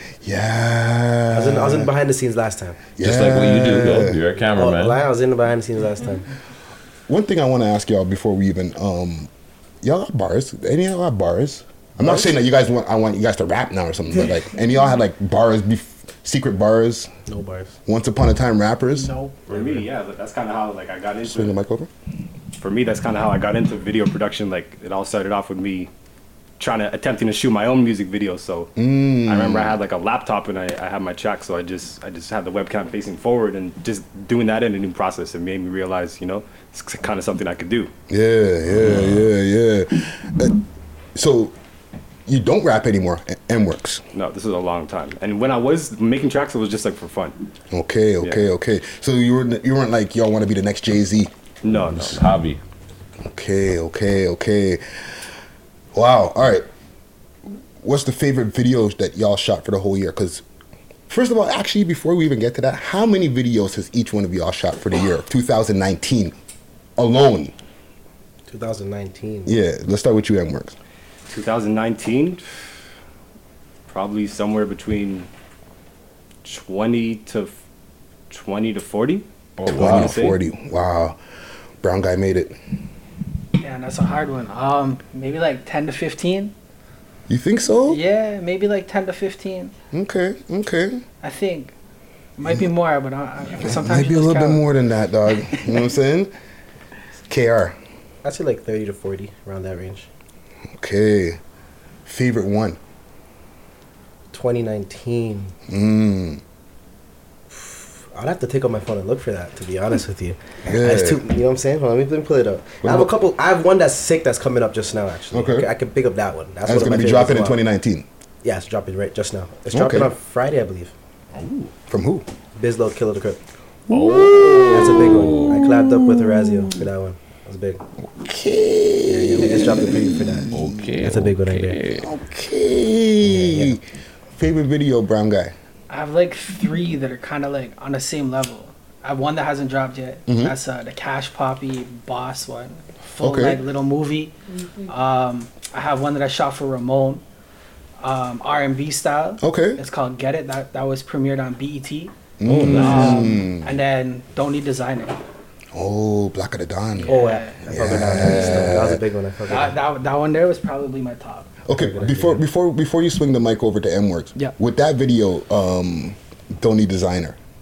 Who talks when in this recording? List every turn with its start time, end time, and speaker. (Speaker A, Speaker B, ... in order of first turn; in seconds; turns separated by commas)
Speaker A: 0.2-1.9, Speaker B: 1.3-2.8, Speaker A: 3.0-4.2, Speaker C: 3.0-5.0, Speaker B: 4.5-6.2, Speaker A: 7.1-9.3, Speaker A: 9.8-17.1, Speaker B: 17.3-17.7, Speaker A: 17.9-19.1, Speaker D: 19.0-19.5, Speaker E: 19.5-21.6, Speaker A: 21.2-21.9, Speaker E: 22.6-25.9, Speaker E: 26.6-28.7, Speaker A: 28.8-29.8, Speaker E: 29.2-37.9, Speaker A: 38.1-40.6, Speaker C: 38.7-39.3, Speaker A: 41.1-41.5, Speaker A: 42.3-44.0, Speaker E: 44.1-47.4, Speaker A: 47.7-51.3, Speaker E: 48.2-48.5, Speaker E: 51.6-52.1, Speaker C: 51.7-52.6, Speaker A: 53.2-54.8, Speaker A: 55.9-56.7, Speaker A: 57.8-60.4, Speaker A: 61.1-66.3, Speaker A: 67.0-67.5, Speaker B: 68.5-69.5, Speaker A: 69.5-70.7, Speaker E: 71.3-72.4, Speaker E: 73.9-75.3, Speaker E: 76.4-77.5, Speaker E: 78.3-80.4, Speaker C: 79.6-80.2, Speaker A: 79.7-81.2, Speaker A: 81.8-82.6, Speaker D: 83.6-86.5, Speaker A: 87.3-88.0, Speaker D: 87.8-89.7, Speaker A: 89.9-91.0, Speaker D: 91.2-91.7, Speaker D: 92.4-94.6, Speaker A: 93.6-96.3, Speaker A: 97.3-97.8, Speaker B: 98.2-100.1, Speaker A: 100.8-101.4, Speaker A: 102.0-102.8, Speaker B: 104.3-105.5, Speaker A: 105.7-106.4, Speaker B: 107.5-117.6, Speaker A: 110.7-111.2, Speaker A: 112.8-113.1, Speaker A: 115.3-115.7, Speaker A: 116.6-118.0, Speaker B: 118.4-120.9, Speaker A: 119.7-120.1, Speaker C: 121.3-121.7, Speaker A: 121.9-122.3, Speaker B: 122.5-123.4, Speaker C: 123.9-125.6, Speaker A: 123.9-126.8, Speaker B: 124.6-127.8, Speaker A: 128.2-130.8, Speaker B: 129.1-131.8, Speaker C: 130.5-132.1, Speaker A: 132.0-133.8, Speaker B: 133.2-133.8, Speaker A: 134.4-135.5, Speaker D: 135.9-144.3, Speaker A: 140.3-140.5, Speaker A: 143.2-143.6, Speaker D: 144.9-147.2, Speaker D: 148.0-152.1, Speaker A: 149.4-149.8, Speaker A: 152.4-153.7, Speaker C: 152.5-153.0, Speaker D: 152.7-155.2, Speaker A: 155.7-159.0, Speaker D: 157.0-157.7, Speaker B: 157.1-159.7, Speaker D: 159.5-161.5, Speaker A: 161.7-167.4, Speaker B: 161.7-162.4